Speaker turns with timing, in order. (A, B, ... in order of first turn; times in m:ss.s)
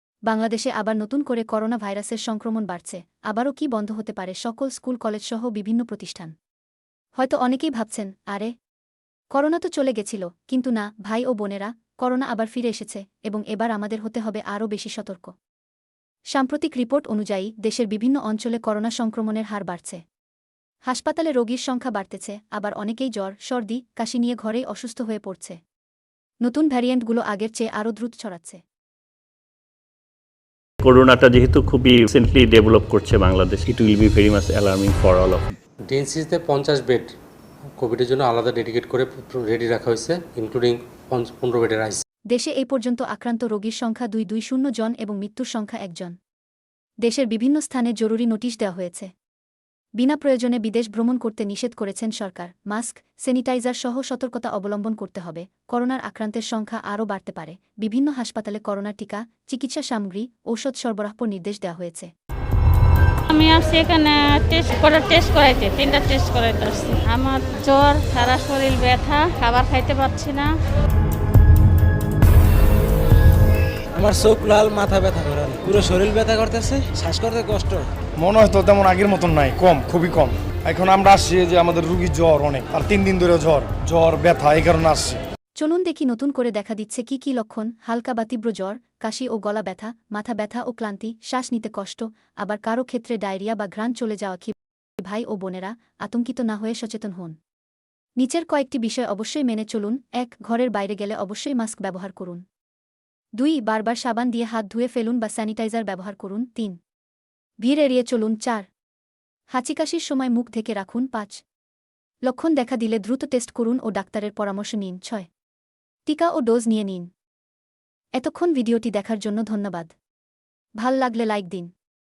0:00.3-0:06.3 A
0:07.2-0:08.5 A
0:09.3-0:15.3 A
0:16.3-0:20.0 A
0:20.9-0:25.6 A
0:26.4-0:28.6 A
0:30.8-0:35.6 B
0:35.9-0:37.1 C
0:37.8-0:42.0 C
0:42.3-0:46.1 A
0:47.0-0:49.1 A
0:50.0-1:02.1 A
1:03.3-1:10.5 D
1:14.0-1:17.9 E
1:18.2-1:25.2 F
1:25.6-1:37.4 A
1:38.2-1:42.4 A
1:43.4-1:46.8 A
1:47.6-1:48.7 A
1:49.5-1:51.4 A
1:52.2-1:55.3 A
1:56.1-1:57.1 A
1:58.2-1:59.9 A
2:00.8-2:01.7 A